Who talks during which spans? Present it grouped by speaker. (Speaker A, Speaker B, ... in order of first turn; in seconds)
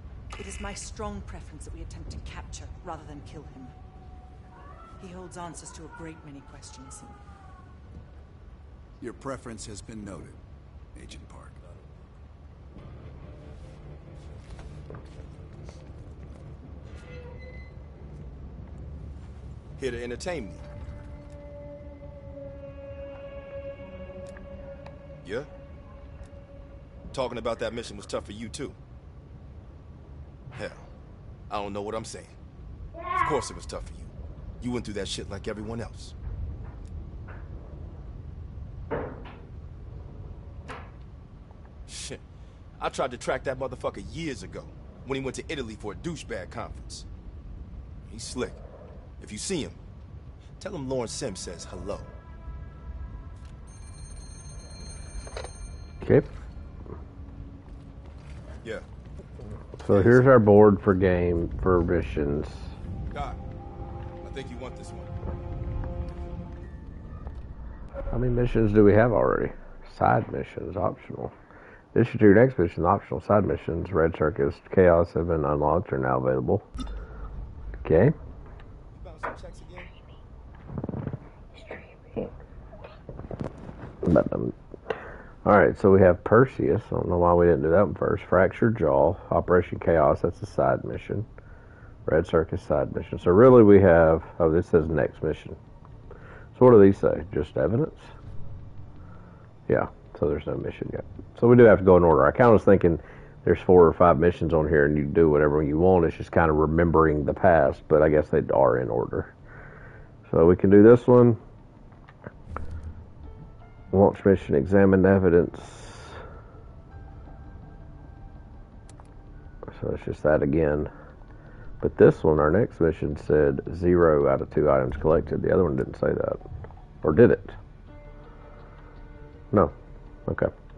Speaker A: 0.3-3.7, 5.0-7.2
Speaker B: 9.0-10.4, 10.9-11.6
Speaker C: 19.8-20.6, 25.2-25.5, 27.1-28.8, 30.6-30.9, 31.5-32.4, 33.1-36.1, 41.9-42.2, 42.8-47.1, 48.0-48.6, 49.2-49.8, 50.6-52.1, 59.9-60.3, 63.1-63.4, 64.2-65.1, 78.9-79.9
Speaker D: 56.0-56.3, 59.8-62.7, 68.1-71.3, 71.9-76.7, 77.8-78.1, 81.6-82.3, 84.0-84.5, 85.4-91.3, 92.0-95.6, 96.5-98.1, 99.7-109.3, 110.3-111.4, 113.9-116.2, 119.7-120.9, 121.8-126.4, 127.0-127.5, 130.3-130.5